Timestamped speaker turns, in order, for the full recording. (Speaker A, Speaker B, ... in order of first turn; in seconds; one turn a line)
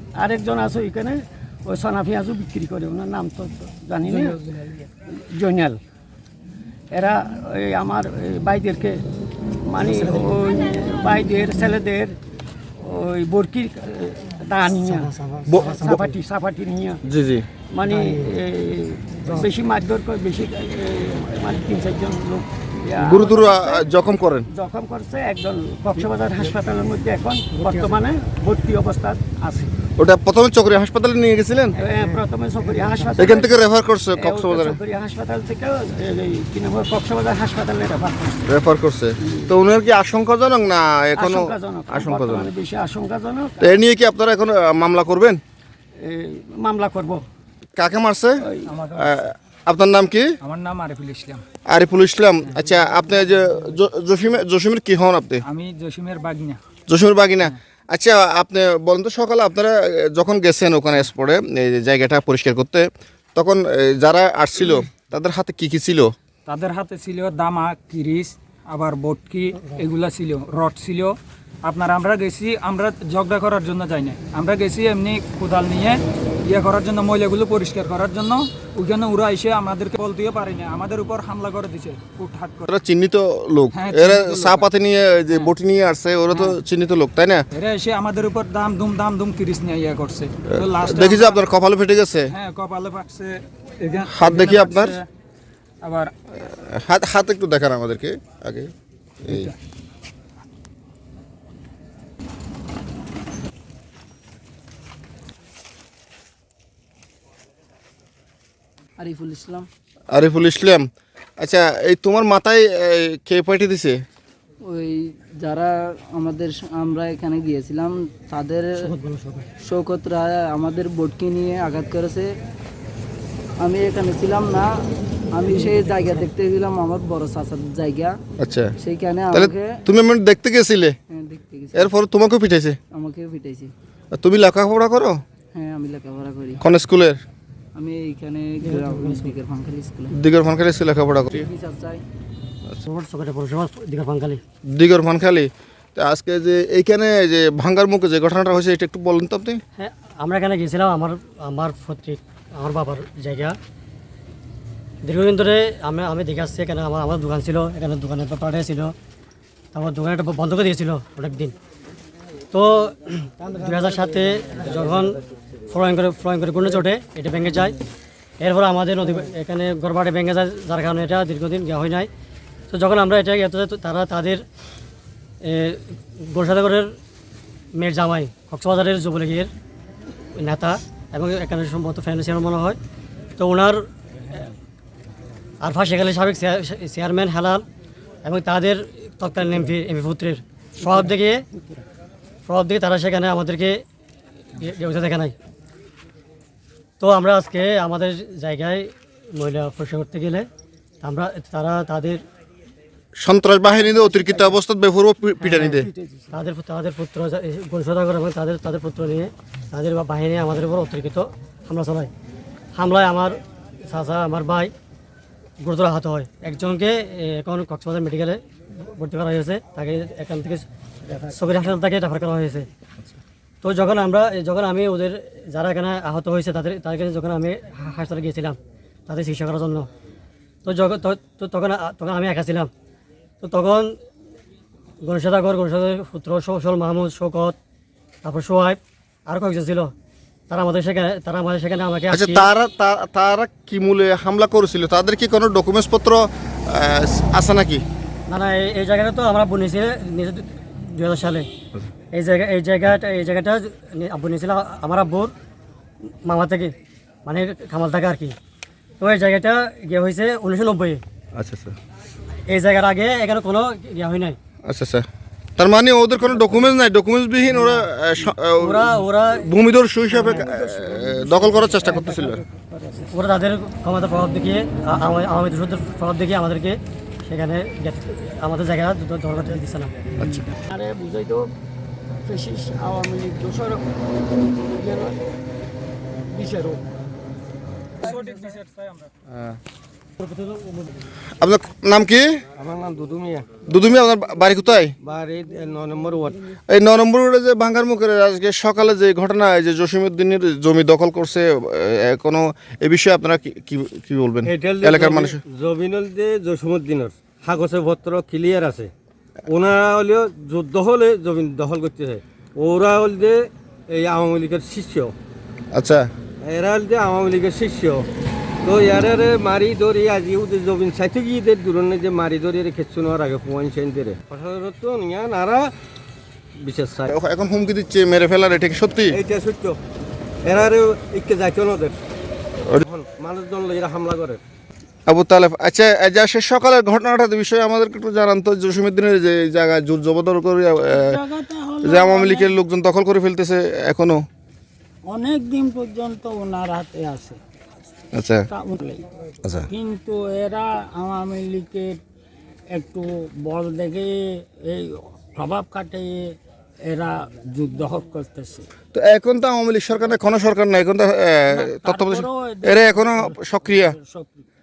Speaker A: 0.1-4.4
Speaker A: 5.1-5.8
Speaker A: 6.9-9.0
Speaker A: 9.7-12.2
Speaker B: 9.8-10.3
Speaker A: 12.8-15.1
Speaker B: 14.8-16.1
Speaker C: 15.5-16.0
Speaker A: 15.7-17.0
Speaker C: 17.1-17.5
Speaker A: 17.7-23.9
Speaker B: 17.9-18.4
Speaker C: 23.0-24.5
Speaker A: 24.5-29.7
Speaker B: 26.0-26.5
Speaker B: 27.5-28.0
Speaker C: 30.0-31.8
Speaker A: 31.8-33.6
Speaker B: 31.9-33.3
Speaker C: 33.2-34.8
Speaker A: 34.1-38.4
Speaker C: 38.5-42.5
Speaker A: 41.1-43.8
Speaker C: 43.6-45.4
Speaker A: 46.0-47.2
Speaker C: 47.8-48.4
Speaker D: 48.7-49.1
Speaker C: 49.0-50.3
Speaker D: 50.4-51.4
Speaker C: 51.7-55.4
Speaker D: 55.5-56.6
Speaker C: 56.9-66.1
Speaker D: 66.5-82.7
Speaker C: 82.7-87.4
Speaker D: 83.7-84.7
Speaker D: 87.5-91.4
Speaker C: 90.5-92.3
Speaker D: 92.3-95.0
Speaker C: 94.1-94.9
Speaker D: 95.8-96.1
Speaker C: 96.3-98.7
Speaker D: 99.3-99.5
Speaker E: 109.0-109.7
Speaker C: 110.1-110.9
Speaker C: 111.4-114.0
Speaker E: 114.6-118.8
Speaker B: 118.8-119.5
Speaker E: 119.6-122.3
Speaker E: 123.6-124.7
Speaker E: 125.3-128.2
Speaker B: 125.4-126.3
Speaker C: 128.4-128.7
Speaker E: 128.8-129.8
Speaker C: 129.3-130.9
Speaker E: 131.1-131.9
Speaker C: 131.7-132.8
Speaker E: 132.9-133.7
Speaker C: 134.1-135.2
Speaker E: 135.5-136.6
Speaker C: 136.6-137.2
Speaker E: 137.7-140.1
Speaker B: 138.6-139.3
Speaker C: 140.1-141.5
Speaker E: 141.3-142.0
Speaker B: 142.8-144.4
Speaker C: 144.7-149.6
Speaker B: 149.8-153.6
Speaker B: 155.0-158.9
Speaker B: 159.7-161.5
Speaker B: 162.5-167.8
Speaker B: 168.4-172.1
Speaker B: 172.7-174.4
Speaker B: 175.4-176.9
Speaker B: 177.8-179.5
Speaker B: 180.4-182.8
Speaker B: 183.4-183.9
Speaker B: 185.6-187.6
Speaker B: 188.2-191.4
Speaker B: 192.5-193.8
Speaker B: 194.5-195.3
Speaker B: 197.0-200.5
Speaker B: 201.0-202.2
Speaker C: 203.2-205.9
Speaker A: 203.8-204.6
Speaker A: 205.4-206.3
Speaker B: 206.3-212.1
Speaker B: 212.7-214.7
Speaker B: 215.6-220.7
Speaker A: 221.0-221.4
Speaker B: 221.3-222.7
Speaker B: 223.6-229.9
Speaker B: 230.6-232.7
Speaker B: 233.4-233.9
Speaker B: 235.0-237.6
Speaker B: 238.2-239.9
Speaker B: 240.5-242.5
Speaker C: 242.1-247.8
Speaker B: 248.3-251.5
Speaker B: 252.1-255.3
Speaker B: 256.2-256.7
Speaker B: 257.2-258.4
Speaker B: 259.0-261.0
Speaker B: 262.5-264.4
Speaker C: 264.6-265.0
Speaker C: 265.6-268.9
Speaker B: 268.6-269.5
Speaker C: 269.4-272.4
Speaker B: 270.1-270.5
Speaker A: 270.2-273.1
Speaker B: 273.1-280.1
Speaker A: 280.6-281.5
Speaker A: 282.2-283.9
Speaker A: 284.7-285.2
Speaker A: 286.3-286.9
Speaker D: 288.0-289.1
Speaker B: 290.3-290.6
Speaker C: 291.4-292.3
Speaker F: 292.6-293.5
Speaker C: 293.6-294.9
Speaker F: 295.0-296.5
Speaker C: 296.7-305.4
Speaker F: 304.4-308.9
Speaker F: 309.5-315.1
Speaker C: 315.7-316.0
Speaker F: 316.4-318.1
Speaker F: 318.6-325.7
Speaker F: 326.6-327.1
Speaker C: 327.1-329.2
Speaker F: 329.1-329.8
Speaker F: 330.4-332.0
Speaker F: 332.8-334.4
Speaker C: 335.1-341.2
Speaker G: 340.9-342.5
Speaker C: 341.8-344.2
Speaker G: 345.1-347.4
Speaker C: 348.1-348.4
Speaker G: 348.5-349.1
Speaker G: 349.7-352.0
Speaker G: 352.7-356.1
Speaker G: 356.9-358.6
Speaker C: 358.9-364.0
Speaker G: 361.5-364.4